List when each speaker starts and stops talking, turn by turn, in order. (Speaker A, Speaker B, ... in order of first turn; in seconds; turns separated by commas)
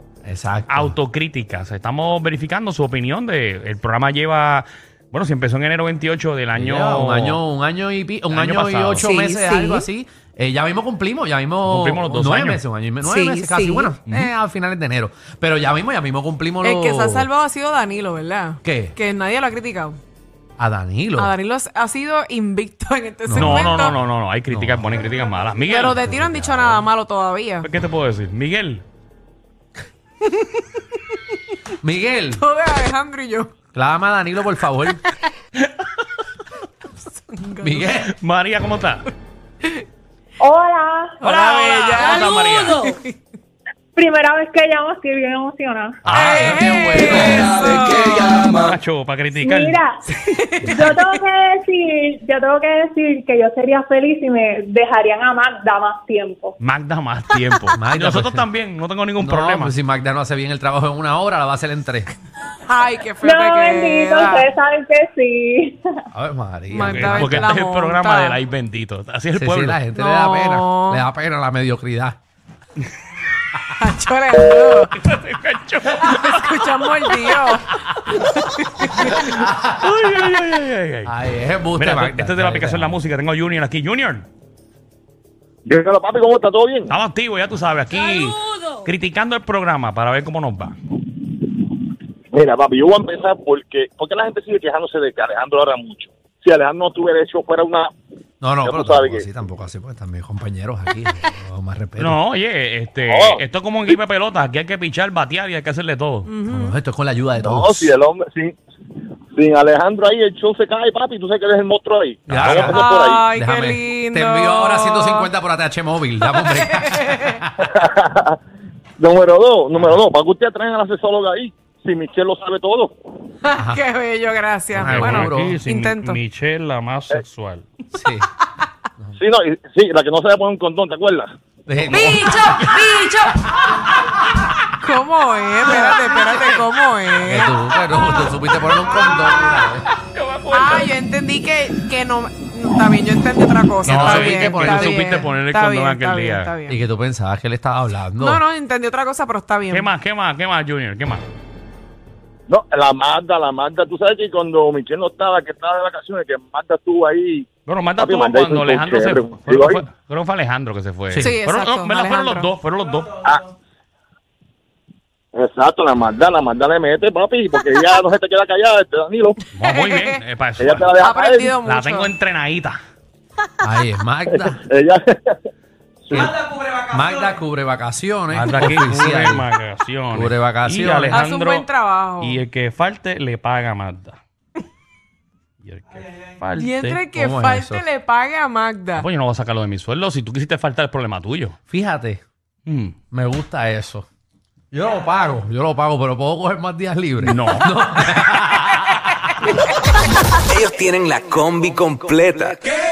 Speaker A: 0.2-0.9, Speaker B: 0.7-7.4, Speaker A: 6.5-17.3, Speaker B: 8.3-9.2, Speaker C: 9.0-9.9, Speaker B: 11.7-12.6, Speaker C: 13.0-13.9, Speaker C: 16.6-20.0, Speaker A: 18.6-18.9, Speaker A: 20.6-21.3, Speaker C: 21.2-23.9, Speaker A: 23.3-23.9, Speaker B: 23.3-26.0, Speaker A: 24.5-25.2, Speaker C: 25.7-27.7, Speaker A: 25.9-26.9, Speaker B: 27.6-28.8, Speaker A: 31.8-32.4, Speaker C: 32.4-33.5, Speaker A: 33.8-35.0, Speaker C: 37.0-37.9, Speaker A: 37.6-38.1, Speaker B: 38.2-39.0, Speaker D: 40.4-41.2, Speaker C: 41.2-43.1, Speaker B: 41.2-42.8, Speaker D: 44.0-46.0, Speaker A: 46.0-47.5, Speaker B: 46.1-46.4, Speaker C: 46.1-48.5, Speaker B: 48.5-49.8, Speaker D: 49.4-56.5, Speaker C: 50.1-51.2, Speaker B: 56.6-59.8, Speaker A: 57.8-58.5, Speaker A: 59.2-62.1, Speaker C: 62.7-64.5, Speaker D: 63.2-65.8, Speaker A: 66.1-67.6, Speaker C: 66.7-68.4, Speaker B: 66.8-69.8, Speaker A: 69.3-72.2, Speaker C: 69.9-71.0, Speaker C: 73.8-74.9, Speaker B: 75.0-77.4, Speaker C: 76.0-79.1, Speaker B: 77.9-78.2, Speaker A: 79.0-79.9, Speaker B: 79.0-81.1, Speaker A: 81.1-83.0, Speaker B: 81.8-84.2, Speaker E: 85.7-86.9, Speaker B: 86.9-90.8, Speaker E: 92.3-97.9, Speaker A: 98.4-102.2, Speaker E: 98.6-99.3, Speaker B: 102.0-106.3, Speaker E: 103.1-103.4, Speaker C: 106.2-106.8, Speaker A: 106.5-108.0, Speaker E: 107.4-108.6, Speaker E: 109.3-113.2, Speaker A: 112.3-117.5, Speaker C: 112.6-115.3, Speaker C: 116.2-117.4, Speaker E: 117.6-118.4, Speaker E: 119.0-122.9, Speaker C: 123.4-126.2, Speaker A: 123.6-123.8, Speaker A: 124.7-125.6, Speaker B: 124.8-127.7, Speaker A: 128.0-128.3, Speaker E: 129.2-131.3, Speaker A: 131.7-133.4, Speaker B: 131.9-132.2, Speaker C: 131.9-133.4, Speaker C: 134.8-137.6, Speaker A: 135.6-139.9, Speaker B: 140.1-140.9, Speaker C: 140.5-146.8, Speaker A: 143.8-145.3, Speaker B: 143.8-146.5, Speaker A: 146.7-148.4, Speaker C: 148.2-149.9, Speaker B: 149.7-151.2, Speaker E: 152.5-157.4, Speaker B: 157.7-163.3, Speaker E: 158.0-159.8, Speaker A: 161.1-161.4, Speaker C: 161.2-162.5, Speaker E: 165.3-169.4, Speaker B: 169.6-170.9, Speaker C: 169.6-170.2, Speaker E: 170.6-171.6, Speaker C: 171.0-172.1, Speaker B: 171.6-172.8, Speaker A: 173.6-174.6, Speaker E: 174.3-175.4, Speaker E: 176.0-176.3, Speaker A: 176.1-179.5, Speaker B: 178.3-181.7, Speaker A: 180.1-181.3, Speaker C: 181.1-182.4, Speaker B: 182.2-184.2, Speaker B: 185.6-187.0, Speaker C: 186.5-189.1, Speaker A: 187.1-187.8, Speaker B: 189.0-191.6, Speaker A: 191.7-192.2, Speaker B: 192.7-192.9, Speaker A: 193.1-194.1, Speaker A: 194.7-199.1, Speaker B: 197.2-197.7, Speaker F: 200.3-202.7